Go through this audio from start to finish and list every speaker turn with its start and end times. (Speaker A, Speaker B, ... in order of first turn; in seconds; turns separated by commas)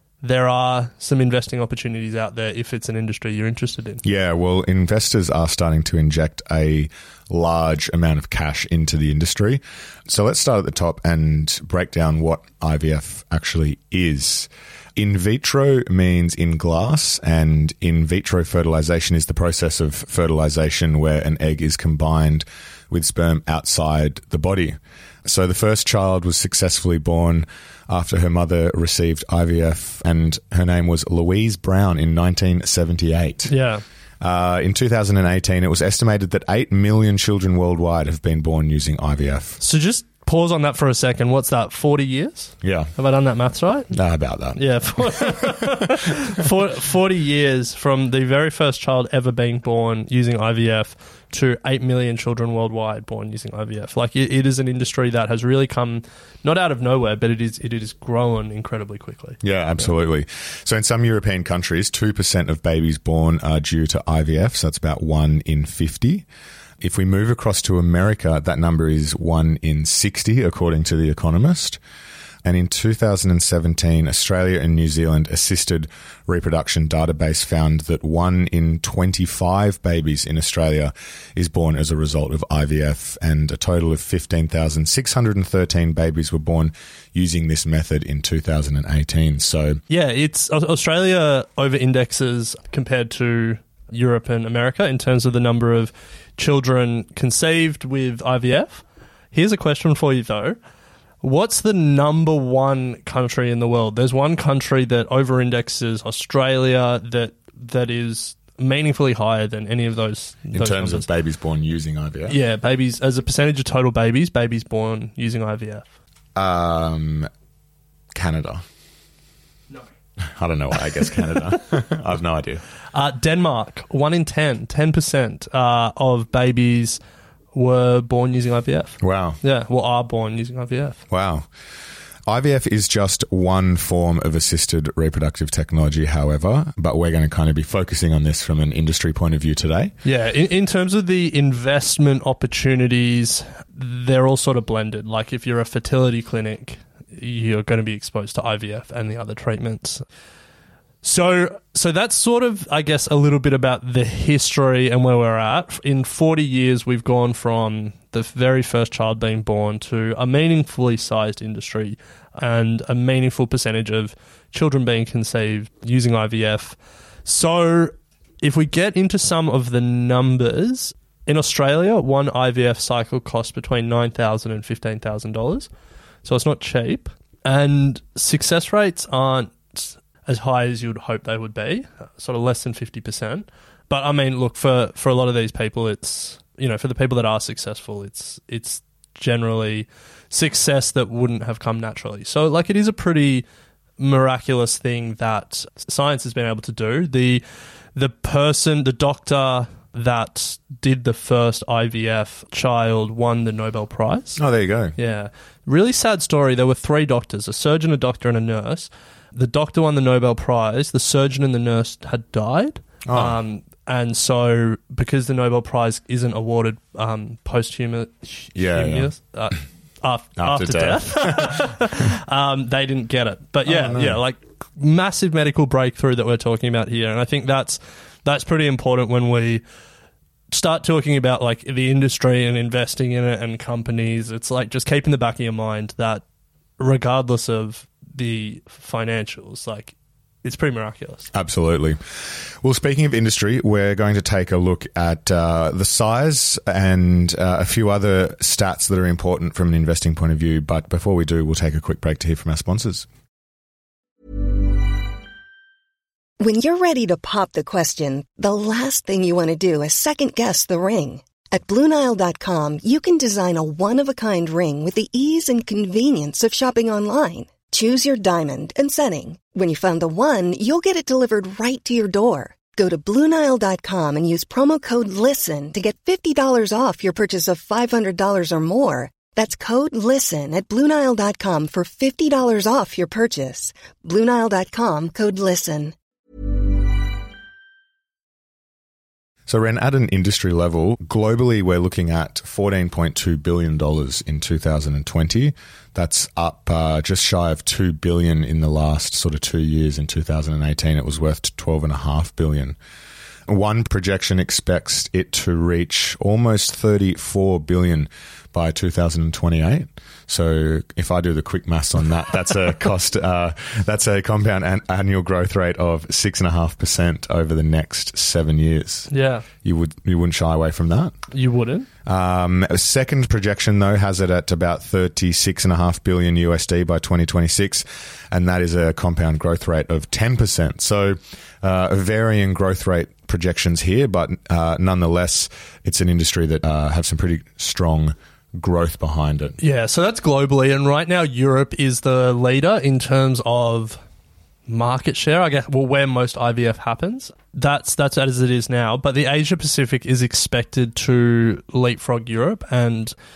Speaker A: 0.2-4.0, Speaker B: 4.0-33.5, Speaker A: 33.5-33.8, Speaker B: 34.2-39.6, Speaker A: 39.6-43.9, Speaker B: 42.6-42.9, Speaker B: 43.9-45.7, Speaker A: 44.5-59.9, Speaker B: 59.4-66.3, Speaker B: 66.8-71.8, Speaker B: 72.4-89.8, Speaker A: 89.9-100.6, Speaker A: 101.2-111.1, Speaker B: 110.5-112.4, Speaker A: 112.3-115.9, Speaker B: 116.4-117.3, Speaker B: 118.1-118.6, Speaker B: 120.2-122.6, Speaker A: 122.9-127.0, Speaker A: 127.5-131.0, Speaker B: 129.0-129.4, Speaker B: 131.1-131.5, Speaker B: 132.3-139.9, Speaker A: 140.0-150.1, Speaker A: 151.0-175.7, Speaker A: 176.2-193.4, Speaker A: 194.0-197.4, Speaker A: 197.9-204.4, Speaker B: 204.4-204.9, Speaker A: 205.0-229.6, Speaker B: 213.1-213.4, Speaker B: 218.6-219.1, Speaker B: 220.4-221.7, Speaker B: 223.6-224.2, Speaker A: 230.5-236.2, Speaker A: 236.8-241.3, Speaker B: 241.3-242.0, Speaker B: 242.6-253.1, Speaker C: 256.4-285.9, Speaker B: 289.5-302.8, Speaker B: 303.5-319.1, Speaker A: 319.1-319.5, Speaker B: 319.6-321.2, Speaker A: 321.3-321.9, Speaker B: 322.1-339.6, Speaker A: 339.6-344.0, Speaker A: 344.7-353.1